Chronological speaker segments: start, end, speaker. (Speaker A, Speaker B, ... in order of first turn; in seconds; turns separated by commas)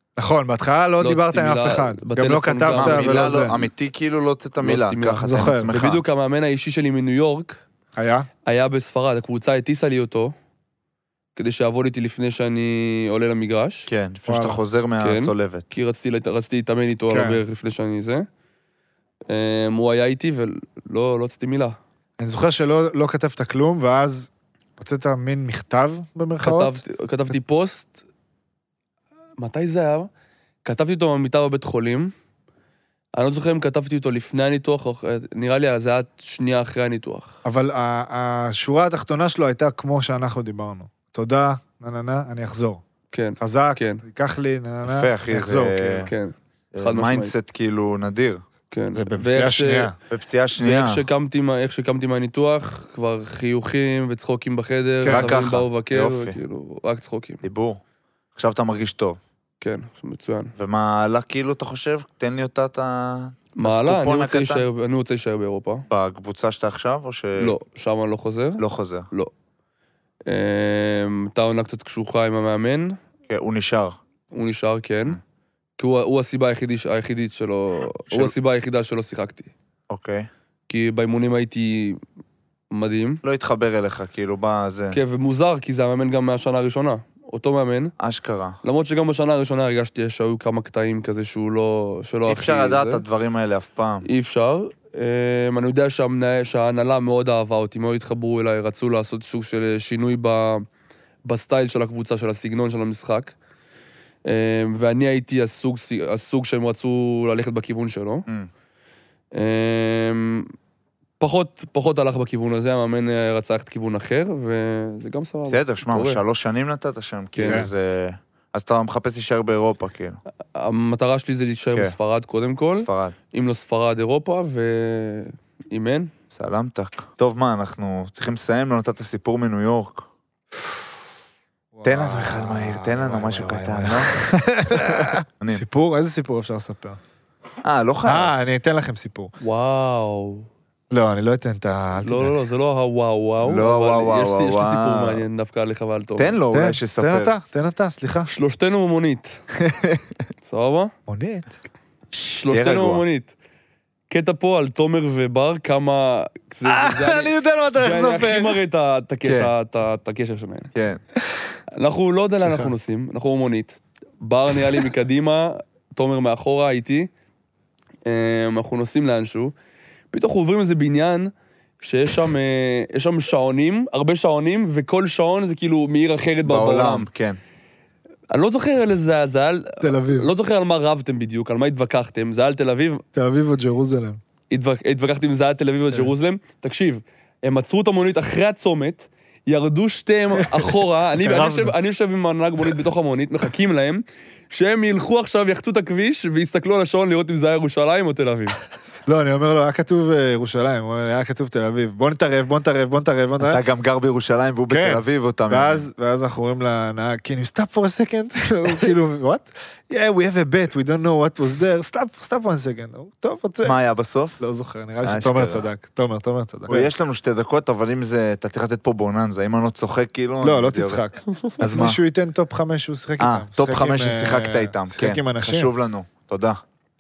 Speaker A: 0.2-3.5, Speaker B: 1.0-3.4, Speaker C: 2.7-6.0, Speaker B: 4.6-7.6, Speaker A: 5.2-5.8, Speaker A: 8.0-8.3, Speaker B: 8.4-10.3, Speaker B: 11.4-13.9, Speaker C: 13.9-15.7, Speaker A: 14.2-14.6, Speaker B: 15.0-18.3, Speaker A: 17.1-17.4, Speaker B: 19.3-21.8, Speaker A: 22.2-26.8, Speaker B: 26.4-28.0, Speaker B: 29.4-30.1, Speaker B: 30.6-32.1, Speaker B: 33.1-37.4, Speaker A: 37.4-42.8, Speaker B: 43.1-44.0, Speaker A: 43.4-46.1, Speaker C: 44.9-46.1, Speaker B: 46.0-47.3, Speaker C: 46.7-48.4, Speaker B: 48.7-49.9, Speaker A: 48.9-49.9, Speaker C: 50.1-51.0, Speaker B: 50.6-57.4, Speaker A: 55.0-55.3, Speaker C: 55.0-56.4, Speaker C: 57.4-57.8, Speaker C: 58.3-59.2, Speaker B: 59.6-60.5, Speaker C: 60.6-64.7, Speaker B: 63.5-65.9, Speaker C: 65.9-67.6, Speaker B: 67.4-69.3, Speaker C: 68.6-69.1, Speaker B: 70.2-73.0, Speaker C: 73.3-74.0, Speaker B: 74.3-75.2, Speaker B: 75.8-79.5, Speaker C: 78.1-78.3, Speaker C: 79.9-80.3, Speaker B: 80.7-82.0, Speaker B: 82.7-83.2, Speaker C: 83.2-85.0, Speaker B: 84.9-87.9, Speaker C: 88.0-88.6, Speaker B: 88.6-93.0, Speaker C: 92.3-94.0, Speaker B: 94.0-100.6, Speaker B: 101.2-103.3, Speaker B: 104.2-108.3, Speaker B: 109.3-110.5, Speaker B: 111.2-116.2, Speaker C: 115.5-120.2, Speaker B: 117.4-117.7, Speaker A: 117.4-117.7, Speaker B: 120.5-126.1, Speaker C: 122.7-123.2, Speaker C: 126.3-130.1, Speaker A: 131.7-137.0, Speaker C: 131.8-135.6, Speaker C: 137.6-138.3, Speaker A: 138.0-139.3, Speaker B: 139.4-140.5, Speaker A: 140.9-142.4, Speaker B: 142.0-146.4, Speaker C: 143.4-145.2, Speaker C: 146.2-147.3, Speaker A: 146.5-148.3, Speaker B: 148.3-149.4, Speaker C: 149.6-150.1, Speaker B: 150.4-150.9, Speaker A: 151.1-151.5, Speaker C: 152.1-153.0, Speaker B: 152.4-153.3, Speaker B: 154.1-160.7, Speaker A: 156.6-158.6, Speaker C: 159.2-159.5, Speaker C: 160.7-161.0, Speaker B: 161.7-167.1, Speaker A: 162.4-162.7, Speaker B: 168.1-169.5, Speaker B: 170.1-177.1, Speaker C: 176.4-177.4, Speaker B: 178.3-183.0, Speaker A: 179.8-180.3, Speaker A: 183.1-184.2, Speaker B: 184.5-198.6, Speaker A: 190.4-191.7, Speaker A: 199.1-203.6, Speaker C: 203.4-205.8, Speaker A: 204.7-213.8, Speaker C: 213.6-214.4, Speaker A: 214.4-216.9, Speaker C: 215.0-215.7, Speaker C: 216.7-221.0, Speaker A: 220.4-225.7, Speaker C: 221.6-222.0, Speaker C: 223.2-226.6